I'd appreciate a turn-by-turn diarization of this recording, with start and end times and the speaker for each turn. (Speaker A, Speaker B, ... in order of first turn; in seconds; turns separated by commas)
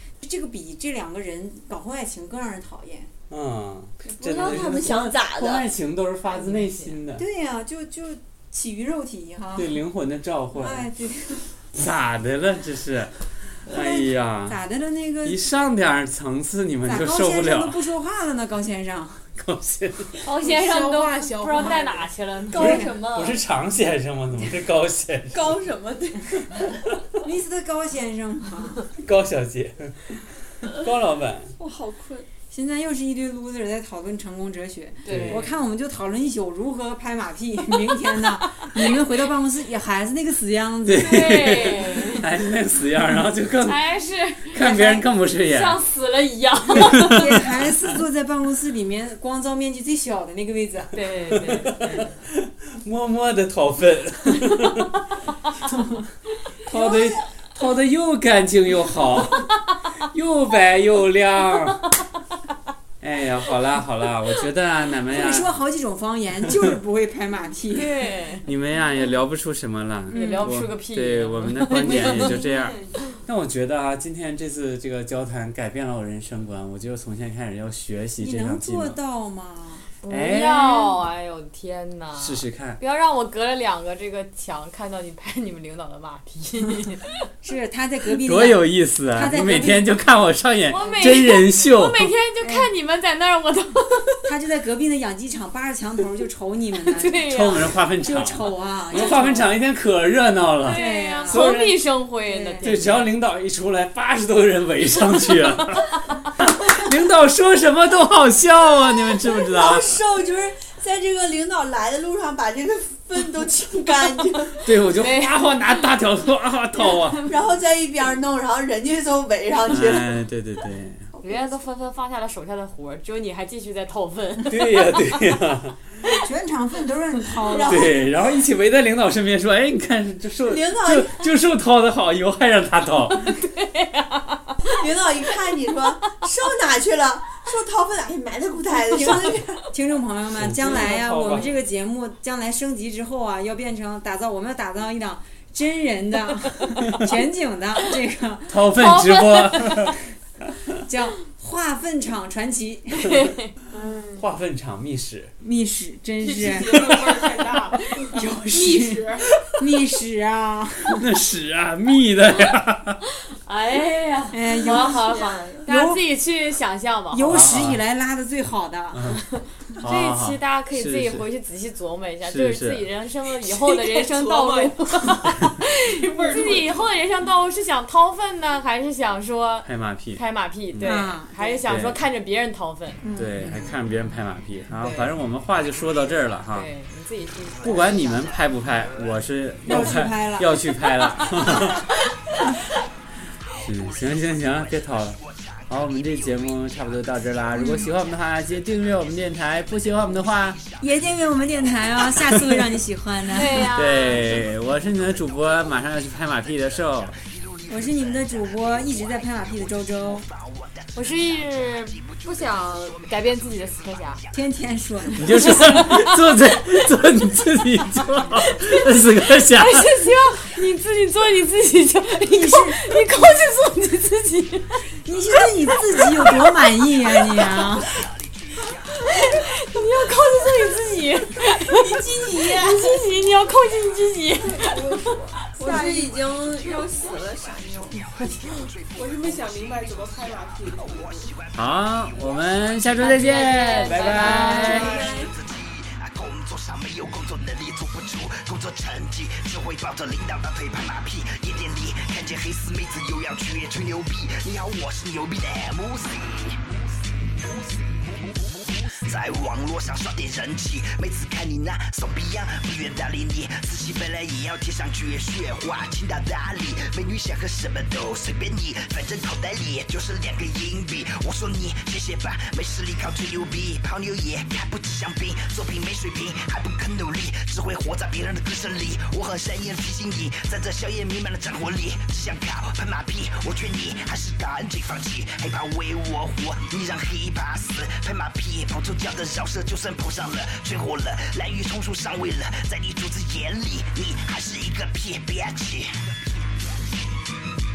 Speaker A: 0.2-3.1, Speaker B: 3.3-7.2, Speaker C: 4.0-5.7, Speaker D: 6.3-7.0, Speaker A: 7.1-9.7, Speaker B: 9.6-10.9, Speaker A: 10.5-11.5, Speaker B: 11.7-14.6, Speaker A: 13.7-15.4, Speaker B: 15.2-17.8, Speaker A: 16.8-19.3, Speaker B: 19.4-20.2, Speaker D: 20.2-22.8, Speaker E: 20.3-22.1, Speaker C: 22.5-23.4, Speaker B: 22.5-25.5, Speaker C: 25.3-26.8, Speaker A: 27.2-28.9, Speaker B: 29.0-31.5, Speaker C: 31.6-32.3, Speaker A: 32.5-41.3, Speaker B: 35.0-35.5, Speaker D: 35.0-35.4, Speaker B: 40.8-43.8, Speaker D: 40.9-42.2, Speaker D: 43.6-44.6, Speaker B: 44.5-45.8, Speaker A: 44.6-45.0, Speaker D: 45.4-47.2, Speaker A: 46.6-51.0, Speaker B: 46.8-47.5, Speaker D: 50.9-52.1, Speaker B: 51.4-51.8, Speaker B: 52.4-55.0, Speaker A: 56.6-57.2, Speaker B: 56.6-61.9, Speaker B: 63.0-65.5, Speaker A: 65.1-68.1, Speaker D: 67.7-68.5, Speaker B: 68.5-79.0, Speaker D: 70.1-72.4, Speaker A: 70.2-70.4, Speaker A: 78.2-79.9, Speaker D: 80.0-87.1, Speaker B: 80.1-81.0, Speaker B: 82.2-82.8, Speaker A: 87.4-89.9, Speaker B: 88.2-92.1, Speaker D: 90.7-94.2, Speaker A: 92.4-92.7, Speaker A: 94.2-97.2, Speaker D: 96.9-97.7, Speaker B: 97.3-101.9, Speaker A: 98.0-99.5, Speaker D: 100.6-103.1, Speaker A: 100.7-101.5, Speaker A: 102.2-102.9, Speaker B: 102.6-110.0, Speaker C: 109.3-114.7, Speaker B: 114.6-117.2, Speaker D: 115.0-115.6, Speaker D: 116.8-117.2, Speaker C: 117.2-120.2, Speaker B: 119.7-121.1, Speaker C: 121.1-121.4, Speaker D: 121.2-125.2, Speaker B: 124.5-125.8, Speaker A: 126.1-127.9, Speaker C: 127.5-128.0, Speaker B: 127.7-133.4, Speaker C: 130.5-131.2, Speaker D: 133.2-134.7, Speaker C: 134.6-139.5, Speaker A: 138.7-148.8, Speaker B: 140.3-141.5, Speaker B: 148.5-149.9, Speaker D: 148.7-149.9, Speaker A: 150.8-153.2, Speaker B: 154.1-155.3, Speaker A: 155.4-157.2, Speaker E: 156.2-159.3, Speaker A: 158.1-161.1, Speaker B: 160.9-163.0, Speaker D: 163.4-167.4, Speaker A: 164.3-165.0, Speaker C: 164.7-165.6, Speaker A: 165.7-166.0, Speaker A: 167.1-169.0, Speaker B: 167.3-167.8, Speaker B: 168.9-169.2, Speaker D: 169.3-183.0, Speaker B: 169.8-171.2, Speaker B: 172.2-172.9, Speaker E: 173.4-175.2, Speaker E: 175.8-176.9, Speaker B: 179.6-180.2, Speaker B: 180.7-181.0, Speaker A: 180.8-181.6, Speaker B: 181.6-182.0, Speaker A: 183.0-183.8, Speaker B: 183.2-186.7, Speaker D: 184.8-185.1, Speaker F: 185.6-186.2, Speaker D: 186.5-188.3, Speaker F: 187.5-189.2, Speaker B: 187.6-191.8, Speaker A: 189.6-190.6, Speaker D: 190.8-191.7, Speaker F: 193.4-202.1, Speaker B: 193.6-200.6, Speaker A: 197.5-197.9, Speaker A: 200.8-203.7, Speaker D: 203.3-204.3, Speaker B: 203.7-207.2, Speaker F: 203.9-214.6, Speaker A: 207.7-210.2, Speaker D: 210.9-214.2, Speaker A: 214.3-215.5, Speaker B: 215.2-219.9, Speaker D: 215.3-216.7, Speaker D: 218.4-224.8, Speaker A: 222.3-222.9, Speaker A: 225.0-227.9, Speaker D: 225.6-226.4, Speaker F: 227.8-229.2, Speaker D: 229.0-235.2, Speaker E: 231.5-233.0, Speaker F: 233.2-234.0, Speaker C: 234.5-238.0, Speaker E: 235.5-236.8, Speaker F: 236.0-256.8, Speaker D: 238.2-238.7, Speaker E: 238.9-241.3, Speaker B: 241.5-245.0, Speaker D: 243.0-245.1, Speaker C: 244.3-245.3, Speaker F: 257.4-297.2